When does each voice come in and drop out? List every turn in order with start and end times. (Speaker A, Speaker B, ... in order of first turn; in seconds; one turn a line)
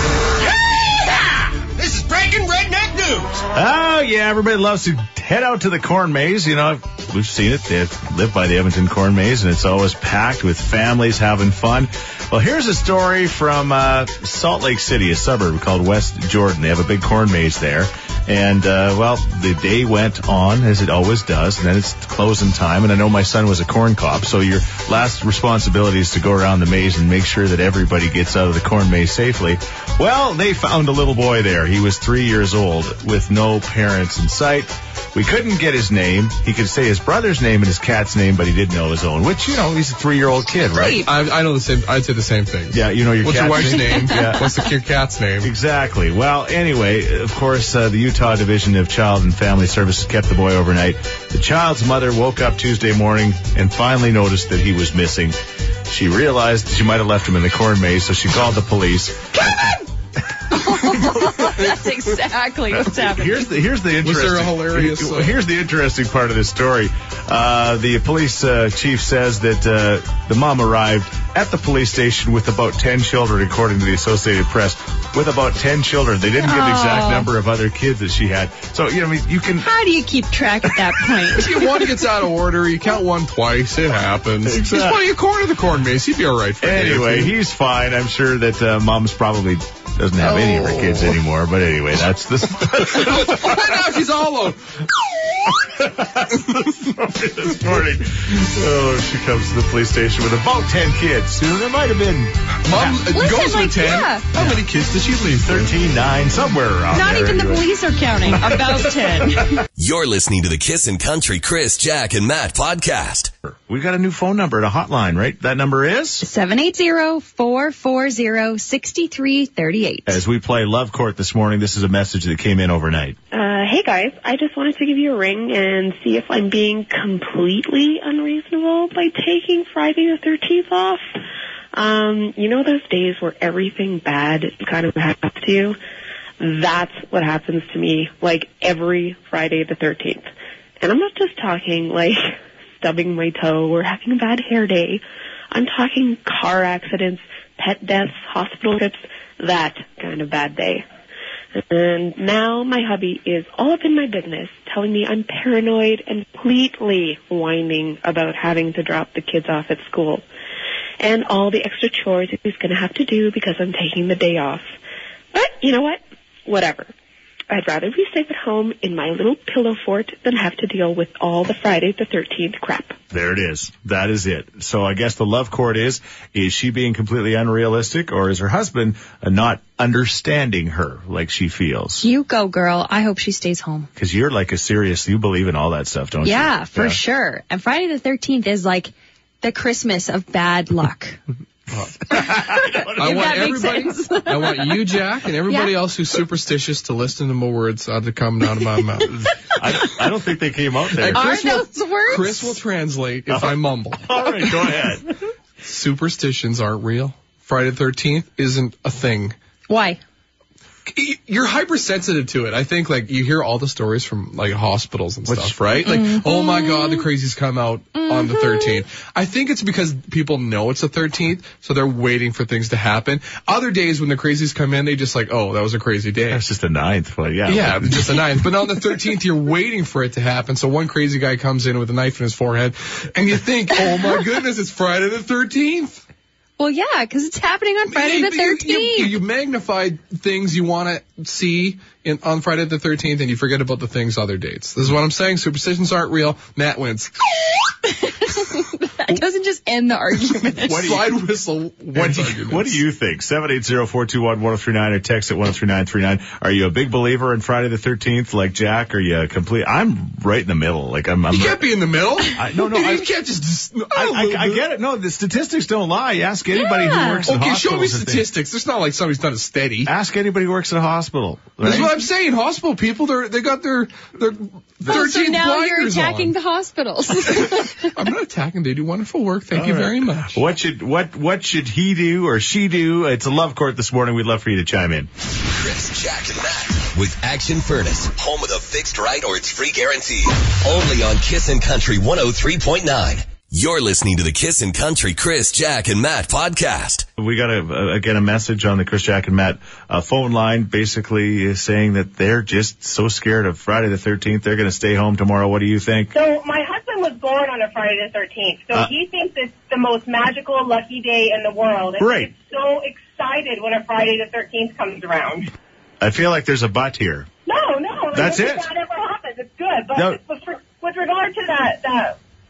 Speaker A: 0.4-3.4
Speaker B: 3.5-41.1
Speaker C: 40.7-41.1
Speaker D: 41.0-45.5
Speaker B: 42.7-44.5
Speaker C: 43.6-44.5
Speaker B: 45.4-59.7
Speaker C: 60.5-63.5
Speaker B: 60.5-61.5
Speaker B: 62.7-79.7
Speaker D: 64.0-65.4
Speaker C: 76.4-77.3
Speaker C: 79.6-81.6
Speaker B: 80.7-81.3
Speaker D: 81.3-87.3
Speaker B: 84.5-85.0
Speaker B: 86.6-93.8
Speaker C: 90.2-91.1
Speaker D: 92.8-94.6
Speaker B: 95.5-103.0
Speaker D: 102.6-105.7
Speaker C: 103.1-104.2
Speaker B: 104.3-104.6
Speaker B: 105.4-107.7
Speaker C: 106.9-109.6
Speaker B: 108.2-109.6
Speaker E: 109.8-113.3
Speaker B: 113.7-116.2
Speaker C: 116.2-120.2
Speaker B: 120.0-123.2
Speaker F: 123.3-131.0
Speaker F: 131.7-135.8
Speaker F: 136.4-140.3
Speaker F: 140.8-150.8
Speaker F: 151.5-160.2
Speaker F: 161.0-164.7
Speaker F: 165.3-166.9
Speaker F: 167.5-172.9
Speaker B: 173.1-182.1
Speaker C: 182.0-183.9
Speaker B: 183.9-187.0
Speaker C: 186.2-191.2
Speaker B: 192.1-193.6
Speaker C: 192.1-194.8
Speaker D: 192.9-199.1
Speaker C: 195.5-195.7
Speaker B: 199.1-201.3
Speaker D: 201.0-204.2
Speaker C: 201.1-202.6
Speaker B: 203.3-205.1
Speaker D: 205.6-209.3
Speaker C: 209.7-210.0
Speaker D: 210.9-226.4
Speaker B: 215.2-215.6
Speaker C: 215.8-217.1
Speaker C: 217.9-218.8
Speaker B: 226.3-228.4
Speaker D: 227.5-236.0
Speaker C: 236.6-239.2
Speaker D: 237.9-247.1
Speaker C: 247.9-251.0
Speaker D: 250.6-252.8
Speaker B: 251.9-261.7
Speaker D: 261.3-264.7
Speaker B: 262.3-263.1
Speaker B: 263.9-268.3
Speaker C: 266.5-267.3
Speaker D: 267.2-269.9
Speaker B: 269.8-272.0
Speaker D: 271.6-276.3
Speaker C: 274.9-277.9
Speaker D: 277.3-280.4
Speaker B: 279.5-285.1
Speaker E: 285.5-297.1
Speaker B: 297.2-306.1
Speaker G: 306.1-315.5
Speaker B: 312.0-312.3
Speaker B: 316.0-317.3
Speaker G: 317.4-322.2
Speaker B: 318.1-318.7